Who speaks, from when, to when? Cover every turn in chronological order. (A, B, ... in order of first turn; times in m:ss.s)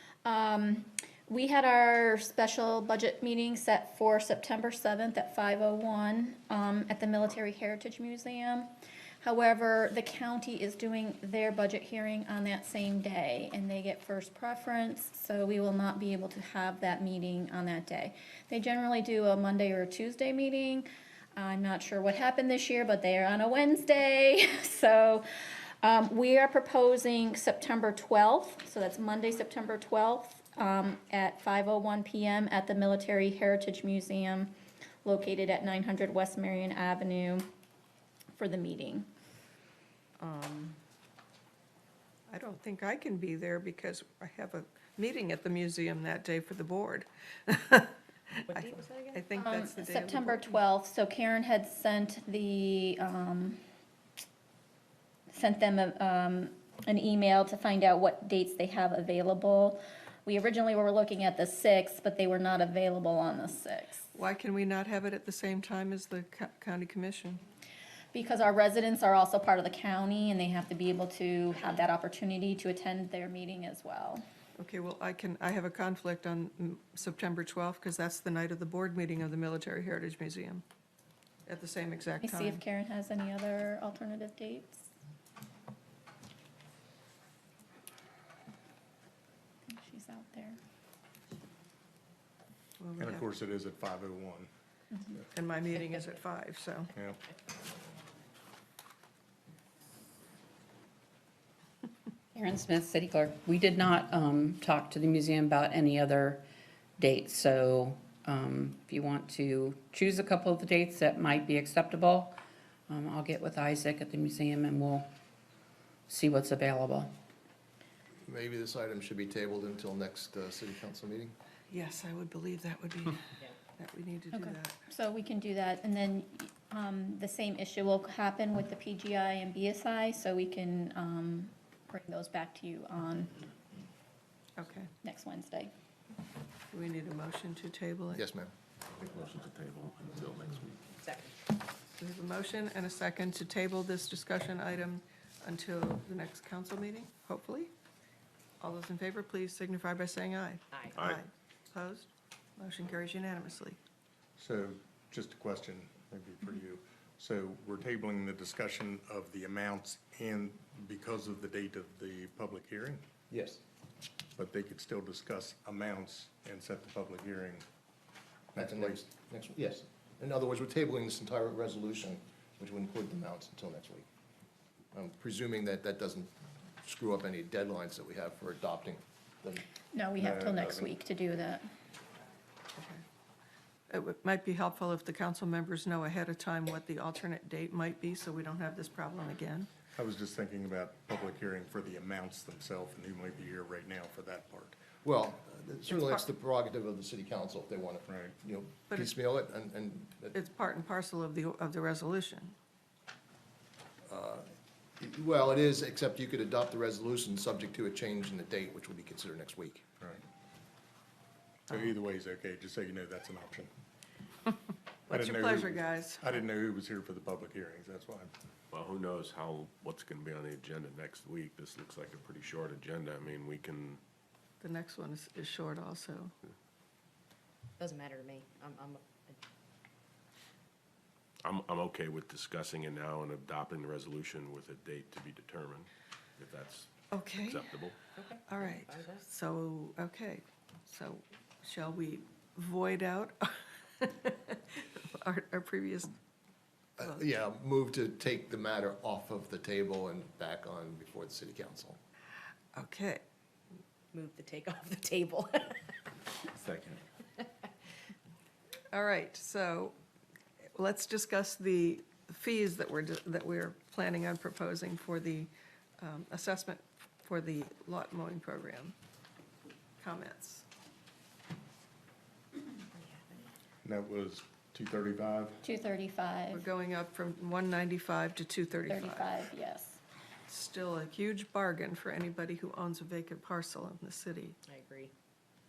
0:00.2-0:08.7 A
0:09.2-0:25.2 A
0:25.8-0:34.5 A
0:35.0-0:37.5 A
0:38.4-0:39.1 A
0:40.2-0:40.8 B
0:42.3-0:50.6 C
0:48.5-0:49.2 B
0:49.4-0:53.6 A
0:55.3-1:04.1 A
1:04.1-1:07.4 C
1:08.1-1:14.2 A
1:14.6-1:20.6 C
1:21.5-1:22.6 C
1:22.2-1:24.9 A
1:29.7-1:30.6 A
1:32.8-1:33.4 C
1:33.0-1:34.5 D
1:35.4-1:36.9 C
1:36.9-1:37.2 D
1:42.4-1:46.4 E
1:47.0-1:52.4 E
1:52.9-1:55.1 E
1:56.1-1:57.1 E
1:58.3-2:01.3 F
2:01.7-2:04.8 C
2:04.3-2:13.4 A
2:14.6-2:14.9 C
2:15.0-2:15.7 A
2:16.7-2:18.2 C
2:18.1-2:18.5 F
2:19.0-2:21.0 G
2:22.0-2:27.7 C
2:28.6-2:33.8 C
2:31.0-2:31.2 G
2:34.4-2:43.0 D
2:43.3-2:43.6 F
2:44.4-2:47.6 D
2:48.6-2:49.0 D
2:48.6-2:54.1 F
2:54.9-2:56.3 F
2:56.8-2:59.6 F
2:59.9-3:01.6 A
3:00.2-3:00.9 D
3:02.8-3:03.0 C
3:03.9-3:09.7 C
3:09.9-3:14.8 D
3:15.0-3:20.4 F
3:15.9-3:16.2 C
3:18.1-3:18.4 D
3:20.3-3:22.6 C
3:24.0-3:29.9 F
3:31.7-3:33.7 D
3:35.1-3:36.2 C
3:35.1-3:38.3 D
3:38.7-3:44.0 G
3:44.6-3:46.3 C
3:47.8-3:49.4 B
3:51.4-3:58.0 G
3:57.1-3:57.8 C
3:58.2-3:59.2 B
3:58.5-4:06.2 C
4:07.0-4:12.0 F
4:12.7-4:13.2 C
4:14.1-4:15.8 B
4:16.6-4:17.0 G
4:18.9-4:20.0 C
4:20.8-4:29.0 C
4:30.0-4:30.6 C
4:33.8-4:35.6 D
4:35.6-4:36.6 A
4:36.5-4:39.3 C
4:38.9-4:40.0 A
4:40.5-4:44.6 C
4:44.7-4:45.1 B